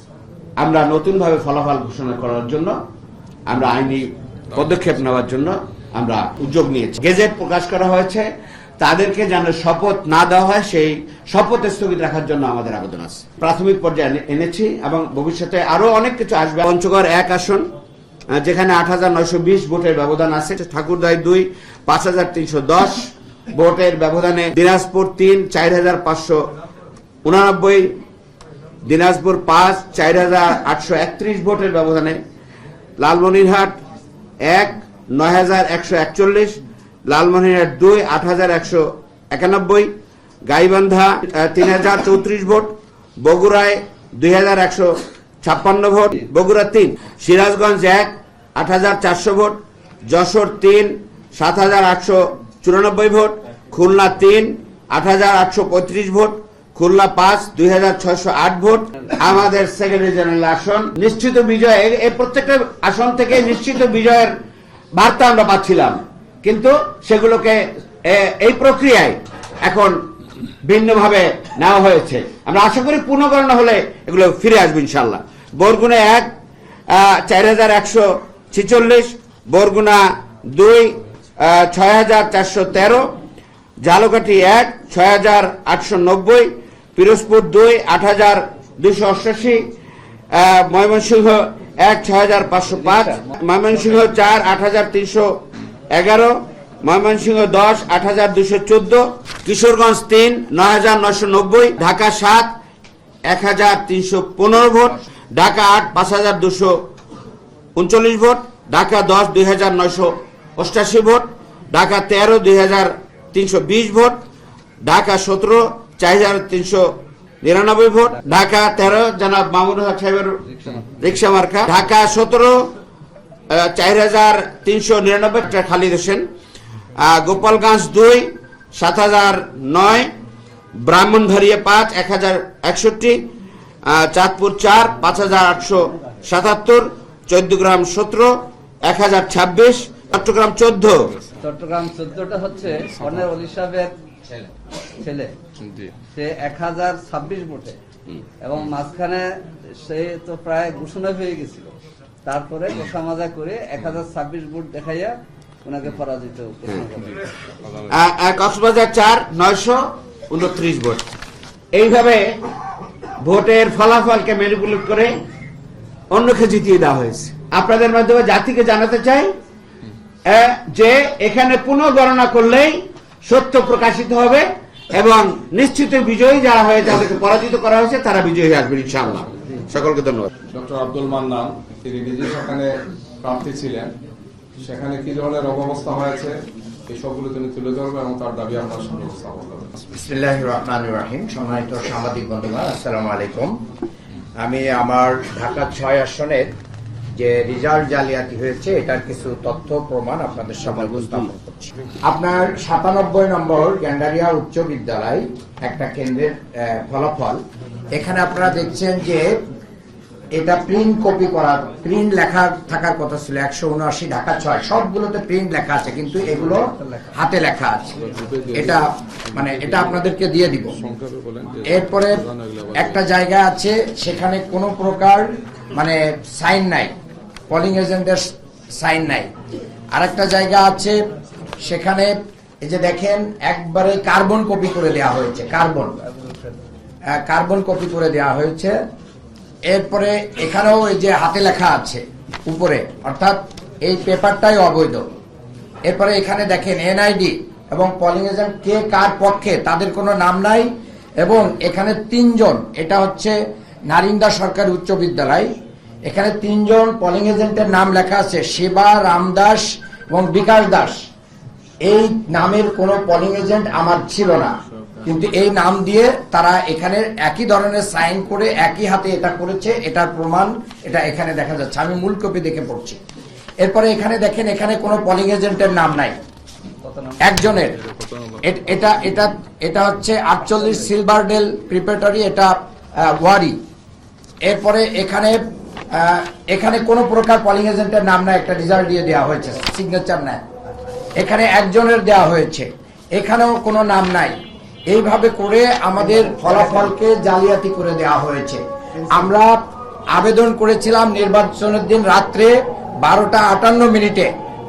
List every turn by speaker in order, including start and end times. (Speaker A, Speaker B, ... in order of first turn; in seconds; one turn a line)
Speaker A: 0.6-2.8
Speaker A: 3.5-8.3
Speaker A: 8.8-17.7
Speaker A: 18.3-26.4
Speaker A: 27.2-27.9
Speaker A: 28.8-32.2
Speaker A: 33.0-33.8
Speaker A: 34.4-39.9
Speaker A: 40.4-64.3
Speaker A: 64.9-70.0
Speaker A: 70.6-76.3
Speaker A: 76.9-83.1
Speaker A: 83.8-89.7
Speaker A: 90.3-102.5
Speaker B: 92.7-93.3
Speaker A: 103.2-106.8
Speaker A: 107.8-114.2
Speaker A: 114.8-122.7
Speaker B: 120.5-120.8
Speaker A: 123.5-126.3
Speaker A: 127.0-130.1
Speaker A: 130.8-133.2
Speaker A: 133.8-141.1
Speaker B: 141.4-143.9
Speaker B: 145.0-145.3
Speaker C: 145.6-145.9
Speaker B: 146.1-147.8
Speaker B: 148.4-149.2
Speaker B: 149.8-151.7
Speaker B: 152.2-157.3
Speaker A: 157.9-161.0
Speaker A: 161.7-162.3
Speaker A: 163.2-165.1
Speaker A: 166.1-169.3
Speaker A: 170.2-180.3
Speaker C: 180.5-182.7
Speaker C: 183.2-183.9
Speaker C: 184.6-186.4
Speaker C: 186.9-189.8
Speaker D: 189.9-193.6
Speaker D: 194.4-196.5
Speaker D: 197.1-207.4
Speaker D: 207.9-209.4
Speaker D: 210.3-217.9
Speaker B: 216.4-217.1
Speaker C: 218.0-220.0
Speaker D: 218.5-220.7
Speaker C: 220.8-223.0
Speaker D: 221.7-222.2
Speaker D: 222.7-226.9
Speaker D: 227.5-229.3
Speaker D: 229.9-231.0
Speaker D: 231.6-232.1
Speaker D: 232.6-236.0
Speaker B: 236.0-236.6
Speaker D: 237.1-238.8
Speaker D: 239.7-245.0
Speaker D: 245.9-250.7
Speaker D: 251.2-253.3
Speaker D: 253.9-255.5
Speaker D: 256.1-261.1
Speaker D: 261.8-264.5
Speaker D: 265.0-273.0
Speaker D: 273.6-276.1
Speaker B: 276.8-277.4
Speaker D: 277.2-277.8
Speaker C: 277.6-278.6
Speaker D: 278.4-283.6
Speaker B: 280.4-280.9
Speaker D: 284.4-285.4
Speaker D: 285.9-290.4
Speaker D: 291.2-294.4
Speaker D: 294.9-302.5
Speaker D: 303.0-304.3